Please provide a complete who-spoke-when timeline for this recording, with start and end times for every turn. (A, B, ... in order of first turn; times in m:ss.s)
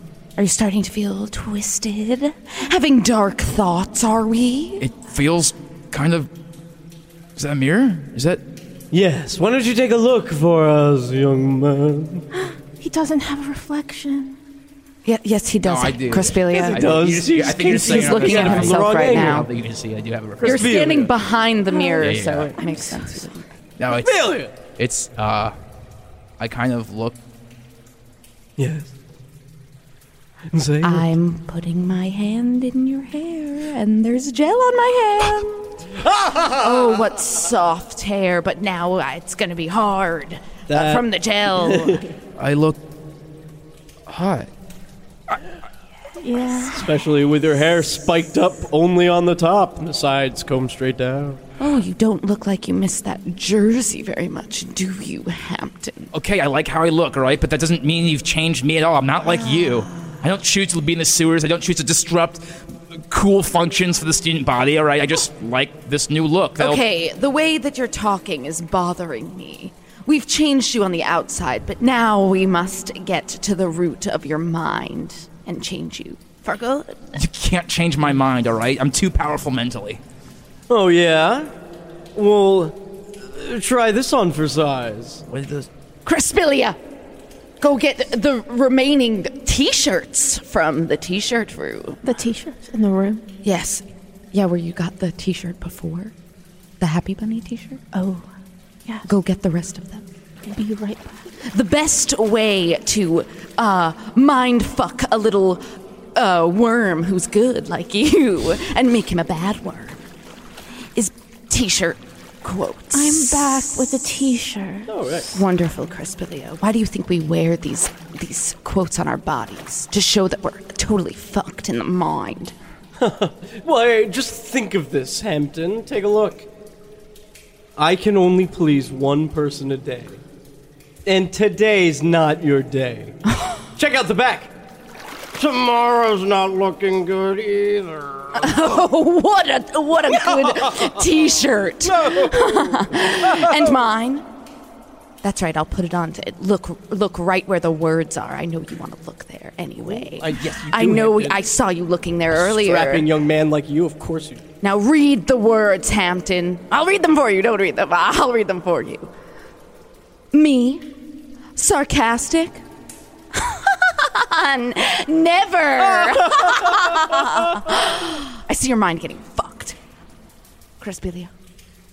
0:00.4-0:04.8 A
0:04.8-0:06.3 B
0:07.4-0:08.4 B
0:08.9-0:12.2 C
0:12.8-0:14.4 D
0:15.0-0:16.9 A
0:15.6-0:21.0 B
0:16.5-0:19.5 C
0:17.8-0:19.5 A
0:20.4-0:21.1 C
0:20.4-0:23.4 A
0:21.7-0:23.2 D
0:22.0-0:22.5 B
0:23.8-0:25.6 B
0:24.0-0:24.5 C
0:26.4-0:27.2 B
0:28.6-0:28.9 C
0:30.5-0:31.1 C
0:30.8-0:35.6 A
0:36.0-0:37.0 C
0:36.5-0:42.0 A
0:40.7-0:42.0 C
0:42.4-0:42.8 B
0:44.1-0:44.5 B
0:46.2-0:46.9 D
0:46.7-0:51.4 C
0:51.6-0:56.1 A
0:56.1-1:06.8 B
0:59.3-1:00.2 A
1:06.6-1:17.2 A
1:17.2-1:20.0 B
1:20.7-1:21.5 C
1:22.2-1:25.2 C
1:25.3-1:25.7 B
1:26.0-1:26.8 A
1:27.6-1:32.0 A
1:32.0-1:33.2 D
1:33.4-1:36.1 A
1:36.8-1:37.8 A
1:37.9-1:38.3 D
1:39.0-1:40.1 A
1:40.4-1:41.3 D
1:41.4-1:45.6 A
1:46.2-1:50.0 A
1:51.0-1:54.3 A
1:52.9-1:54.9 D
1:54.9-1:55.4 C
1:55.3-2:02.5 A
2:03.0-2:06.5 C
2:07.8-2:10.2 C
2:11.0-2:13.2 C
2:13.8-2:14.5 C
2:15.4-2:18.6 C
2:18.3-2:24.2 A
2:20.1-2:21.0 C
2:21.8-2:23.7 C
2:25.2-2:33.1 A
2:29.8-2:31.4 C
2:32.3-2:34.4 C
2:34.6-2:39.1 A
2:40.3-2:40.8 A
2:41.6-2:42.6 A
2:43.4-2:49.8 A
2:46.0-2:47.0 C
2:50.8-2:51.3 A